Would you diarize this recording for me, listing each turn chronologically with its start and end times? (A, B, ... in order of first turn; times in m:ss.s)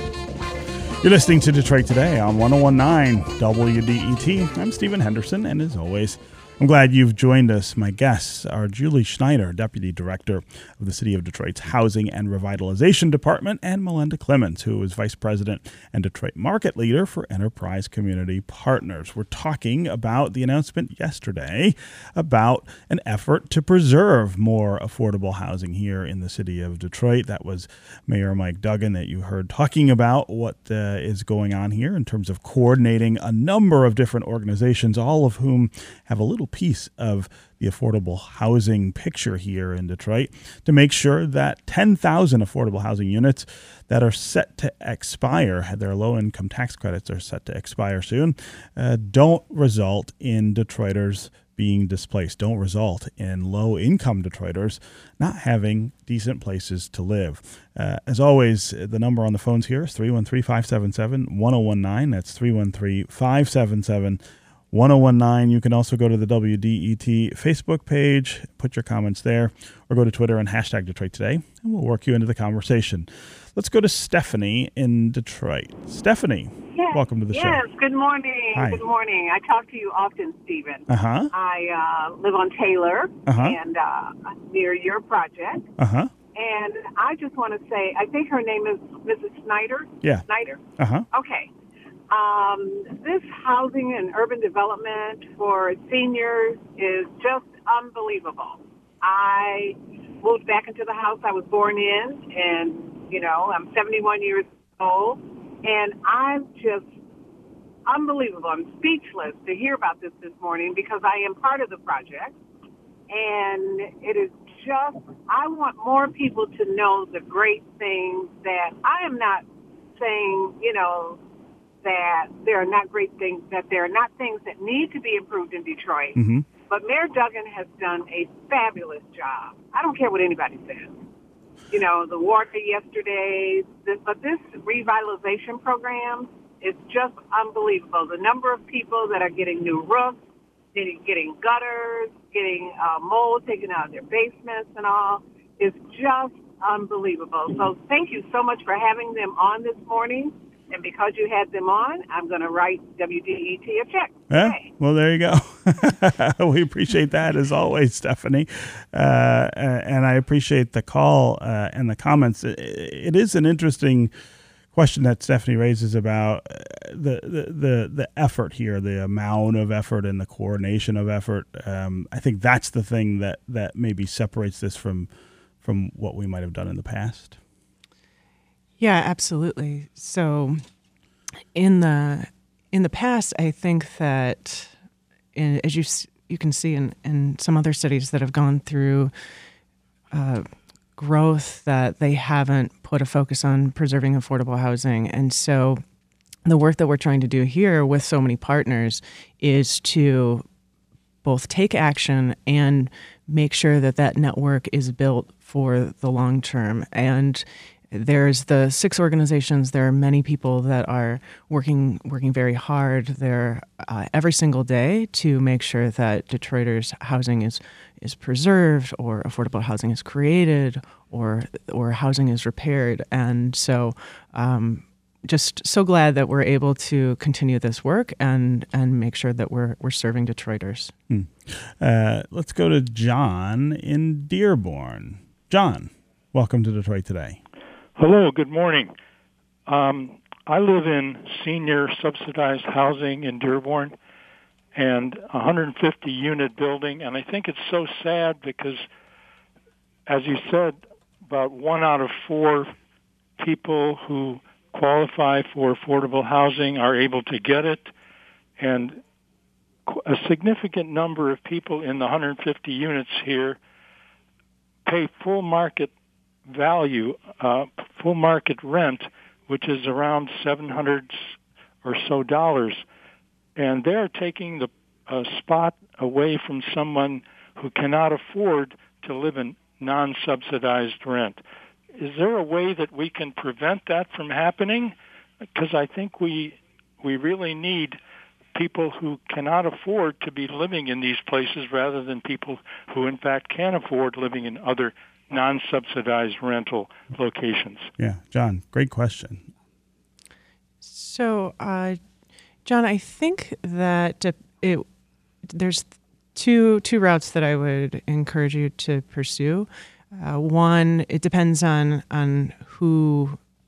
0:01.0-1:04.2 A
1:04.7-1:17.6 A
1:16.7-1:25.7 B
1:18.5-1:18.8 A
1:20.9-1:21.3 A
1:23.2-1:23.6 A
1:25.8-1:26.1 A
1:26.3-1:30.6 B
1:30.8-1:31.0 A
1:31.1-1:31.5 B
1:32.1-1:46.9 B
1:47.8-1:52.4 B
1:53.1-2:01.2 B
2:01.8-2:11.0 B
2:06.2-2:06.4 A
2:11.7-2:20.2 B
2:20.7-2:34.7 B
2:34.3-2:44.1 A
2:44.7-2:55.1 A
2:55.6-2:57.4 A
2:58.8-3:00.6 C
3:01.5-3:04.7 C
3:05.3-3:09.1 C
3:10.1-3:10.4 C
3:11.0-3:15.8 C
3:16.4-3:20.4 C
3:21.2-3:50.9 C
3:51.1-3:57.4 A
3:58.0-3:58.9 D
3:59.7-4:03.9 D
4:04.7-4:08.8 D
4:10.1-4:12.7 D
4:13.4-4:17.9 D
4:18.6-4:19.0 D
4:19.9-4:23.6 D
4:24.8-4:25.9 D
4:26.5-4:32.8 D
4:33.6-4:41.4 D
4:42.0-4:44.9 D
4:45.5-4:48.0 D
4:48.5-4:57.9 D
4:58.0-4:59.5 A
5:00.8-5:02.0 C
5:02.6-5:04.8 C
5:05.4-5:13.4 C